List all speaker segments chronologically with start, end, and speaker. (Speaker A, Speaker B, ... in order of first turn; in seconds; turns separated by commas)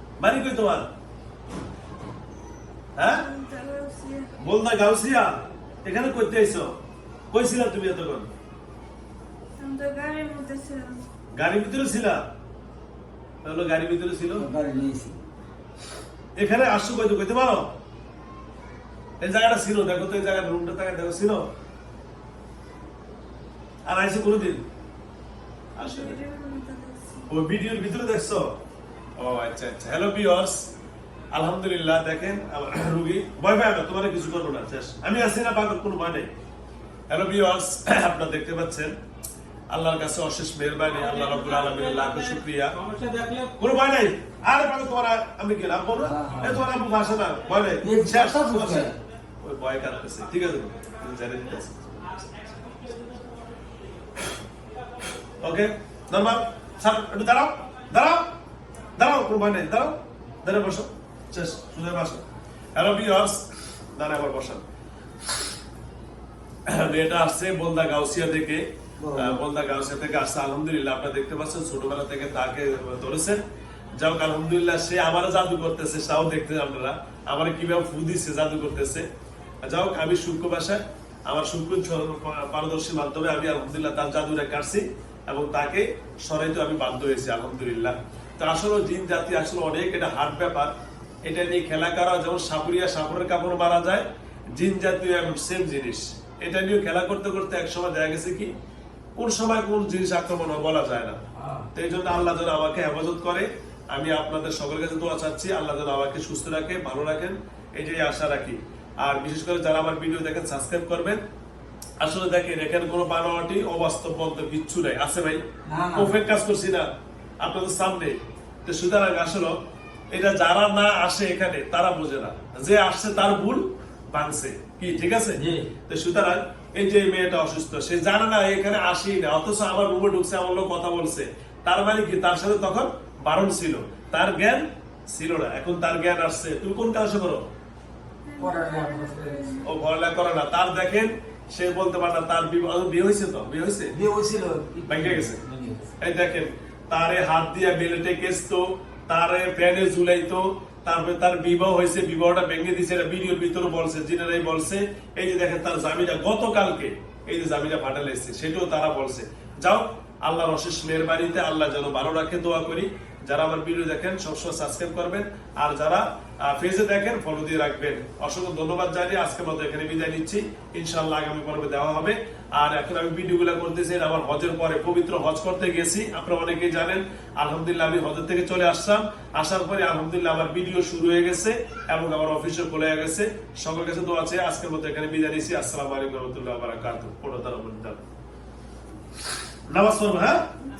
Speaker A: 0.2-0.9, Speaker A: 3.0-3.2, Speaker B: 3.0-4.3, Speaker A: 4.4-6.8, Speaker A: 7.3-8.3, Speaker B: 9.6-11.0, Speaker A: 11.3-12.2, Speaker A: 13.4-14.5, Speaker C: 14.3-15.2, Speaker A: 16.4-17.7, Speaker A: 19.2-21.4, Speaker A: 23.9-24.6, Speaker A: 25.8-26.2, Speaker B: 25.8-27.3, Speaker A: 27.3-28.6, Speaker A: 29.2-30.7, Speaker A: 31.3-36.3, Speaker A: 37.1-38.9, Speaker A: 39.7-42.8, Speaker D: 41.0-43.5, Speaker A: 43.6-52.4, Speaker C: 46.0-46.6, Speaker C: 47.8-48.9, Speaker A: 55.4-58.3, Speaker A: 59.0-62.2, Speaker A: 62.7-64.6, Speaker A: 66.7-73.4, Speaker C: 69.0-69.4, Speaker A: 74.0-79.0, Speaker A: 79.6-90.7, Speaker A: 91.2-98.5, Speaker A: 99.2-101.2, Speaker C: 101.3-101.7, Speaker A: 101.7-111.2, Speaker A: 112.0-115.4, Speaker C: 115.7-116.1, Speaker A: 116.0-116.9, Speaker A: 117.4-119.5, Speaker A: 120.1-137.4, Speaker C: 125.4-125.7, Speaker B: 138.2-139.7, Speaker C: 138.4-139.7, Speaker A: 139.6-143.9, Speaker C: 143.9-145.9, Speaker A: 144.9-145.4, Speaker A: 146.0-188.0, Speaker A: 189.7-190.5